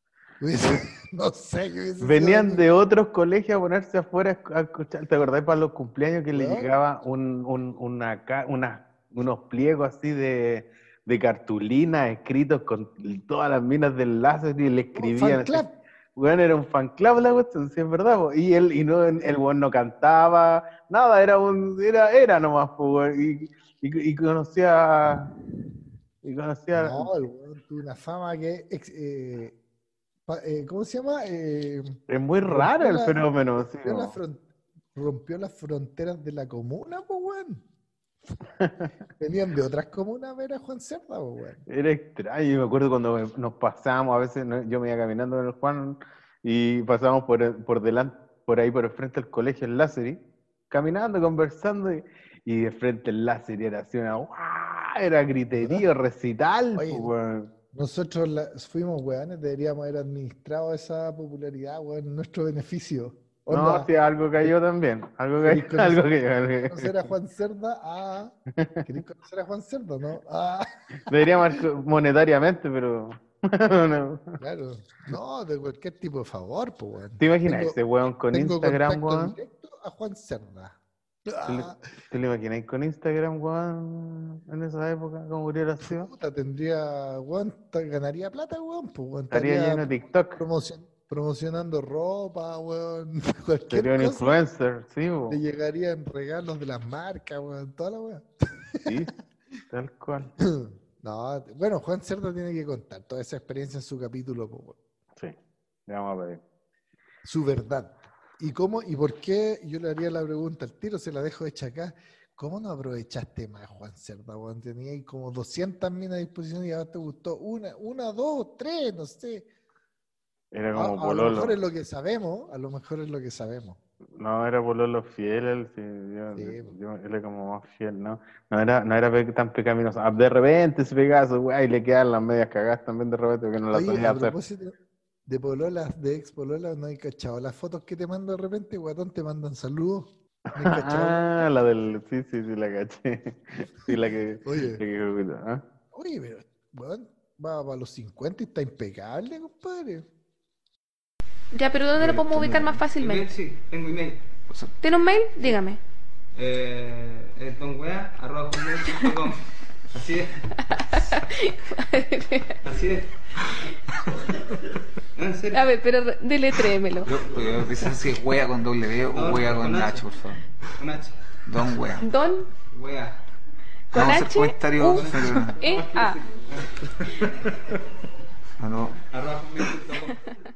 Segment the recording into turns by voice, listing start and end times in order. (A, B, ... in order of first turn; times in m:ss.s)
0:00.4-0:02.6 A
0:02.0-0:15.6 B
0:06.3-0:06.7 A
0:14.9-0:15.7 A
0:16.2-0:25.3 B
0:26.2-0:27.1 B
0:26.7-0:29.5 A
0:30.3-0:33.2 A
0:32.1-0:34.1 B
0:33.8-0:37.6 A
0:38.6-0:38.9 B
0:39.2-0:41.6 A
0:41.7-0:50.2 B
0:50.7-0:57.5 B
0:55.5-0:55.8 A
0:56.8-0:57.1 A
0:57.7-1:03.9 A
1:03.5-1:06.9 B
1:05.4-1:06.0 A
1:06.7-1:08.3 A
1:08.8-1:11.6 A
1:11.0-1:14.4 B
1:14.4-1:17.8 A
1:17.2-1:19.4 B
1:18.3-1:21.8 A
1:21.4-1:26.1 B
1:25.8-1:34.3 A
1:29.3-1:30.4 B
1:33.7-1:35.4 B
1:35.3-1:39.1 A
1:38.8-1:39.1 B
1:39.7-1:40.3 B
1:40.4-1:44.8 A
1:45.9-1:46.4 B
1:47.2-1:59.4 A
2:00.5-2:01.5 B
2:00.7-2:03.8 A
2:04.2-2:14.3 B
2:06.3-2:06.7 A
2:13.7-2:14.7 A
2:15.3-2:21.4 A
2:20.6-2:25.6 B
2:24.4-2:24.8 A
2:25.9-2:30.0 A
2:31.5-2:33.3 C
2:32.0-2:32.7 D
2:33.0-2:34.3 E
2:34.8-2:35.8 C
2:36.3-2:39.4 E
2:40.0-2:40.3 E
2:41.7-2:42.6 C
2:42.6-2:43.1 E
2:45.2-2:45.7 E
2:45.5-2:47.1 C
2:47.1-2:50.4 D
2:49.1-2:50.0 E
2:50.8-2:51.2 E
2:51.5-2:52.0 D
2:52.0-2:52.5 C
2:52.7-2:53.2 E
2:53.9-2:55.6 D
2:53.9-2:56.2 C
2:54.9-2:56.7 E
2:58.6-2:58.9 D
2:59.1-3:00.2 E